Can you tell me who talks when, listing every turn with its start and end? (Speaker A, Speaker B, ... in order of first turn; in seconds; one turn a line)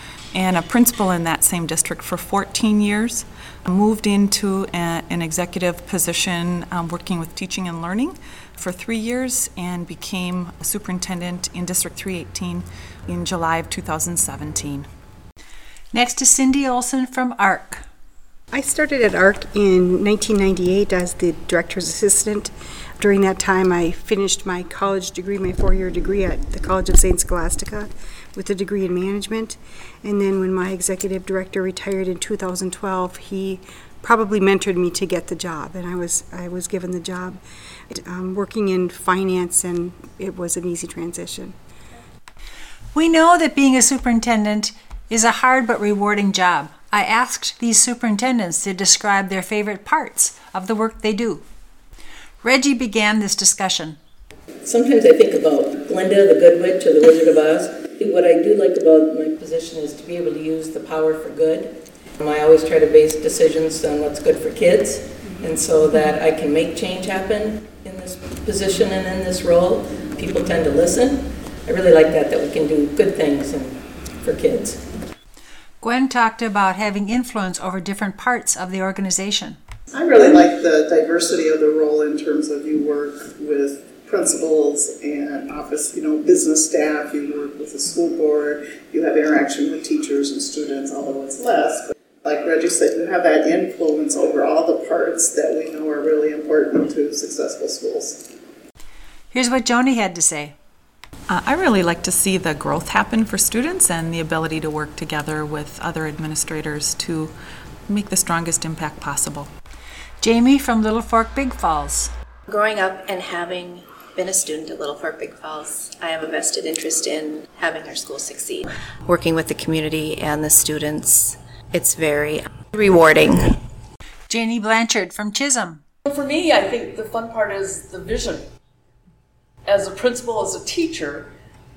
Speaker A: 0.3-14.9
Speaker B: 15.9-17.8
Speaker C: 18.5-37.4
Speaker C: 37.9-41.5
Speaker B: 42.9-51.4
Speaker B: 52.4-54.0
Speaker D: 54.6-74.8
Speaker B: 75.8-79.6
Speaker E: 79.9-98.3
Speaker B: 99.3-100.5
Speaker A: 101.3-107.3
Speaker A: 107.9-109.5
Speaker B: 110.2-112.1
Speaker F: 112.5-123.6
Speaker B: 124.3-125.8
Speaker G: 126.0-128.4
Speaker G: 129.6-131.3